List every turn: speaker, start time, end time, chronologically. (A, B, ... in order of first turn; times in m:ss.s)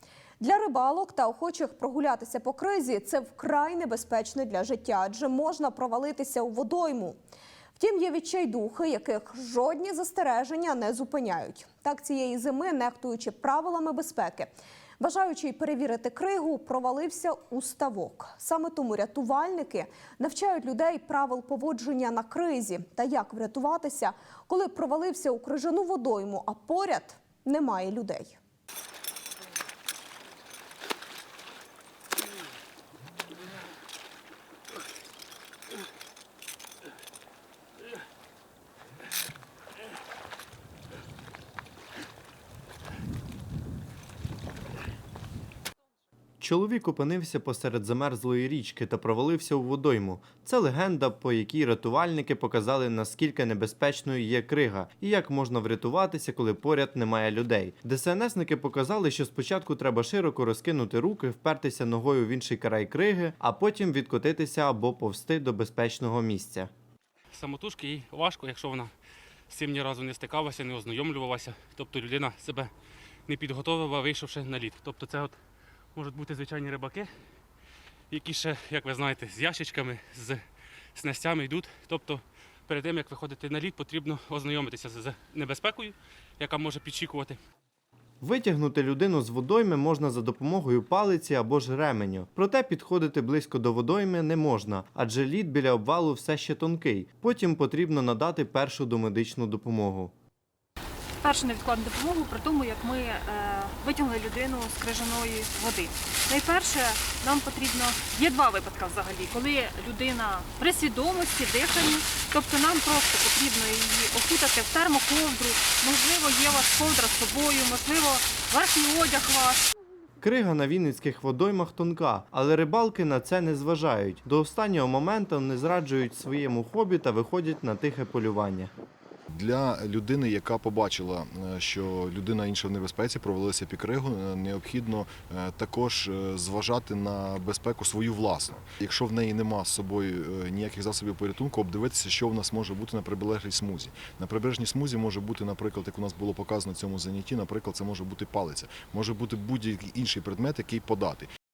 0:00.4-0:07.2 A
0:07.8-0:28.4 A
0:46.4-1:06.7 B
1:07.4-1:08.9 C
1:09.5-1:12.7 C
1:13.3-1:15.3 C
1:16.0-1:17.1 C
1:18.1-1:20.4 C
1:21.0-1:27.4 C
1:28.2-1:40.1 B
1:41.2-1:59.7 D
2:00.2-2:08.7 B
2:09.4-2:31.2 E